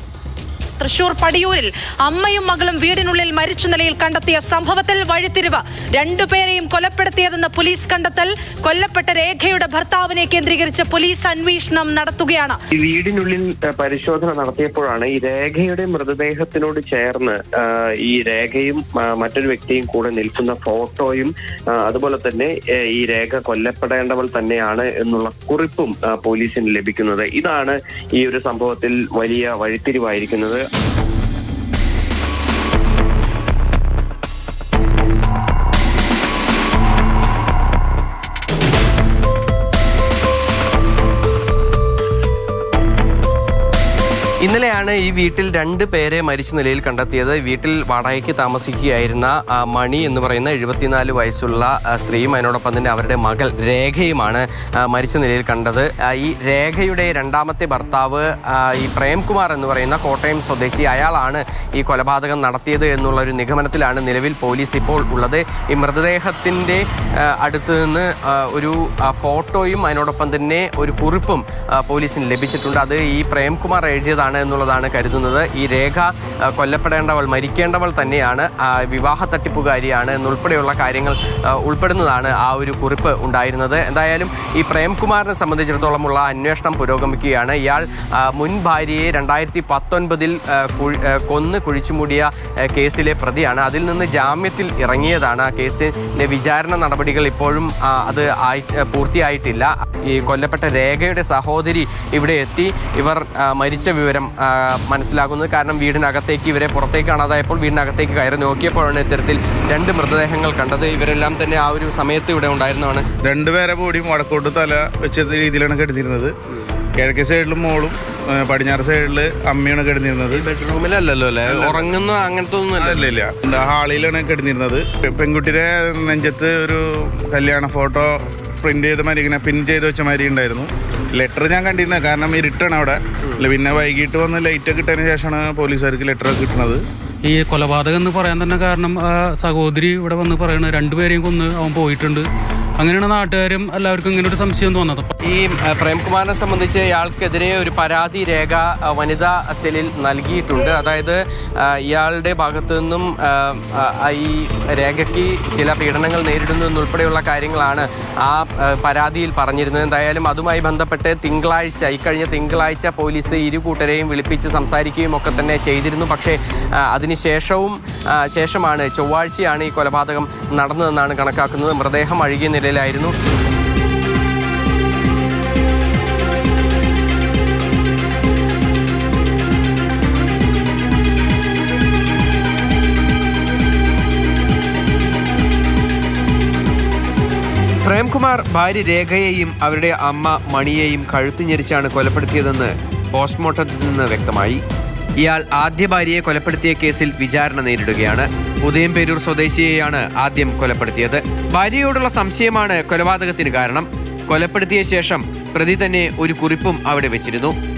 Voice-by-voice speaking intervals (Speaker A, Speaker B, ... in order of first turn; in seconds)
Speaker A: 0.8-12.6
Speaker B: 12.8-30.6
Speaker C: 44.4-113.1, 120.3-123.1, 145.2-173.2, 187.8-194.6, 195.2-207.6
Speaker D: 113.2-116.3, 117.0-120.5, 122.8-136.8
Speaker E: 137.2-142.3, 142.8-145.1